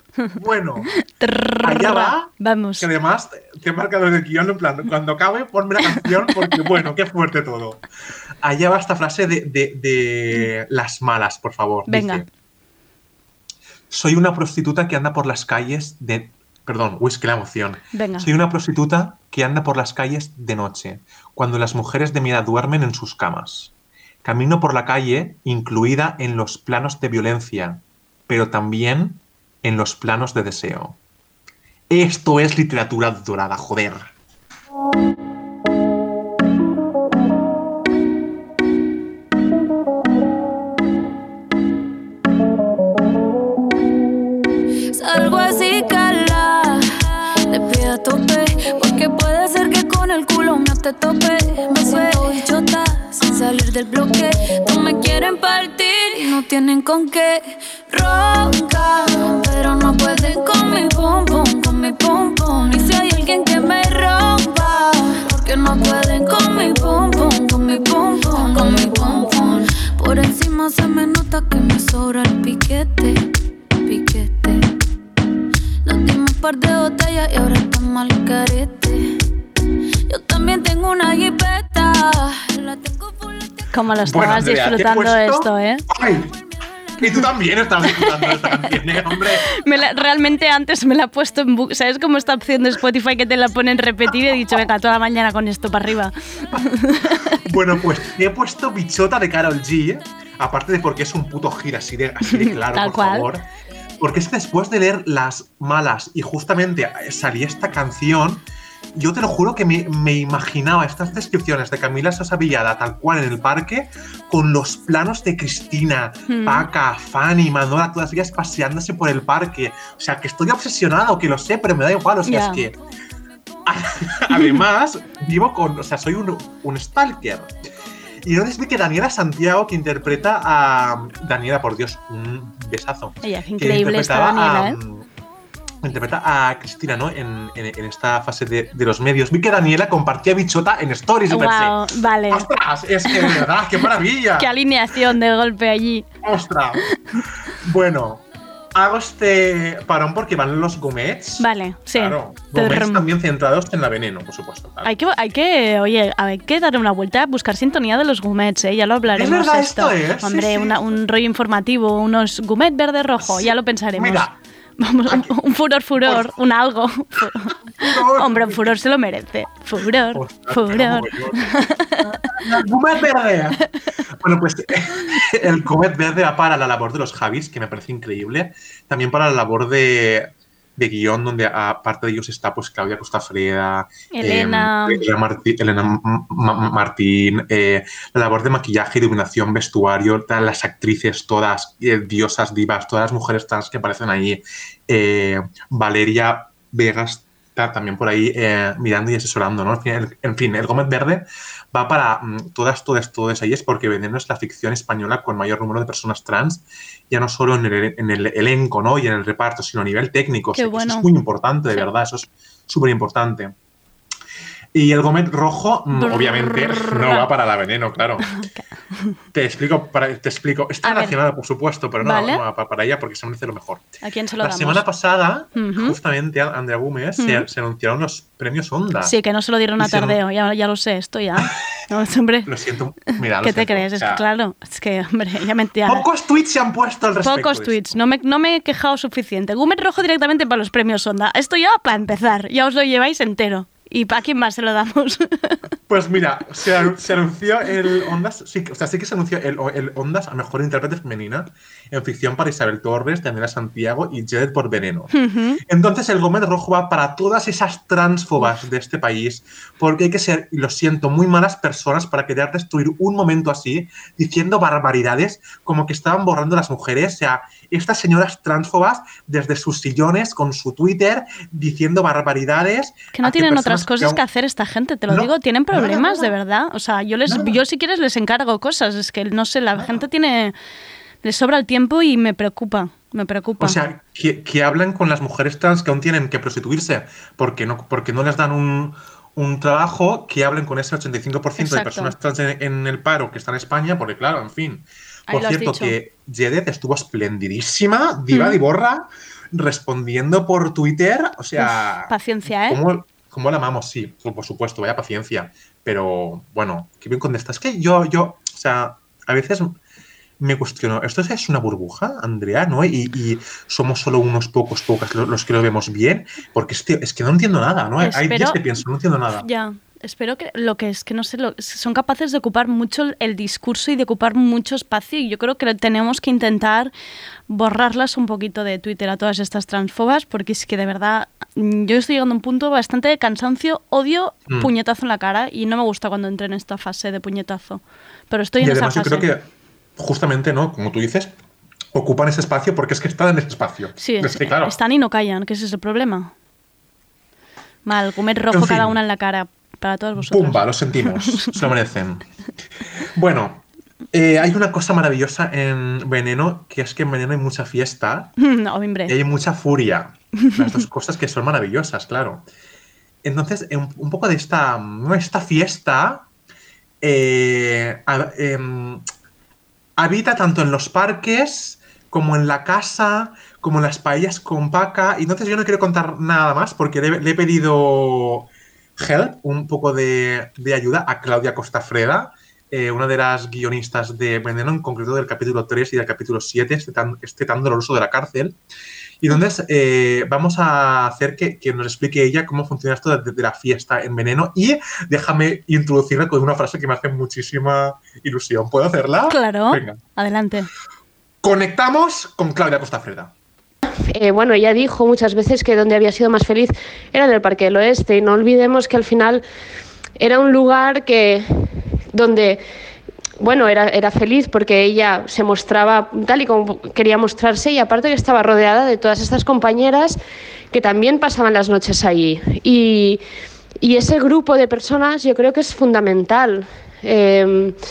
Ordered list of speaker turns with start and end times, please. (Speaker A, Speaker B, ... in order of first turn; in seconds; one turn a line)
Speaker A: 0.3-0.9
Speaker B: 0.8-2.9
Speaker A: 1.6-7.8
Speaker B: 6.4-6.8
Speaker A: 8.4-12.3
Speaker B: 11.9-12.2
Speaker A: 13.9-23.7
Speaker B: 17.9-18.3
Speaker A: 24.2-31.0
Speaker A: 31.9-34.1
Speaker C: 44.9-46.9
Speaker C: 47.5-73.3
Speaker C: 73.8-74.7
Speaker C: 75.8-79.2
Speaker C: 80.1-83.7
Speaker B: 83.7-85.8
Speaker A: 84.0-86.3
Speaker A: 87.0-89.5
Speaker B: 87.8-88.7
Speaker B: 89.4-97.3
Speaker A: 97.4-103.4
Speaker B: 102.2-103.3
Speaker A: 104.0-122.8
Speaker B: 116.3-116.7
Speaker B: 122.2-122.7
Speaker A: 123.7-127.5
Speaker B: 124.3-124.6
Speaker A: 128.2-135.1
Speaker B: 133.2-134.8
Speaker A: 135.8-144.5
Speaker B: 141.3-142.5
Speaker B: 143.0-143.5
Speaker B: 144.4-146.1
Speaker A: 146.2-146.8
Speaker A: 147.6-148.2
Speaker A: 148.7-154.9
Speaker B: 151.4-153.1
Speaker B: 154.8-164.3
Speaker A: 159.1-160.8
Speaker A: 163.2-164.3
Speaker B: 164.8-172.3
Speaker A: 165.1-165.3
Speaker A: 166.0-166.3
Speaker A: 167.8-168.7
Speaker A: 170.1-171.4
Speaker A: 172.0-173.6
Speaker A: 174.2-213.5
Speaker B: 184.1-185.0
Speaker B: 210.5-211.1
Speaker A: 214.7-218.3
Speaker B: 215.9-217.3
Speaker B: 218.3-219.1
Speaker A: 219.3-223.9
Speaker B: 220.8-221.2
Speaker B: 222.0-222.4
Speaker B: 224.0-224.8
Speaker A: 224.4-229.2
Speaker B: 225.5-226.0
Speaker B: 227.2-227.5
Speaker B: 229.0-232.5
Speaker A: 229.8-230.2
Speaker A: 232.5-234.2
Speaker B: 233.4-236.1
Speaker A: 235.8-237.8
Speaker B: 237.2-245.6
Speaker A: 245.9-255.1
Speaker B: 255.1-255.6
Speaker A: 255.7-274.2
Speaker B: 273.1-280.5
Speaker A: 275.1-276.3
Speaker A: 277.3-277.6
Speaker A: 279.7-280.1
Speaker B: 281.2-283.8
Speaker A: 283.6-309.7
Speaker B: 291.6-292.1
Speaker B: 295.3-296.0
Speaker B: 298.3-298.6
Speaker B: 301.6-302.8
Speaker A: 310.4-319.5
Speaker B: 318.0-318.6
Speaker B: 319.3-326.9
Speaker B: 327.5-339.3
Speaker A: 338.6-339.4
Speaker A: 340.0-341.4
Speaker A: 341.9-344.8
Speaker B: 344.0-346.3
Speaker B: 347.8-351.7
Speaker A: 348.5-349.0
Speaker A: 350.2-352.2
Speaker A: 353.2-358.3
Speaker B: 358.4-359.1
Speaker A: 359.1-362.4
Speaker B: 360.4-360.9
Speaker A: 363.2-366.3
Speaker A: 367.0-369.0
Speaker A: 370.0-388.6
Speaker A: 389.2-400.0
Speaker B: 399.3-400.7
Speaker A: 401.4-403.3
Speaker D: 404.1-409.4
Speaker D: 410.2-411.4
Speaker D: 412.1-412.6
Speaker D: 413.4-420.2
Speaker D: 420.7-423.2
Speaker D: 423.8-427.8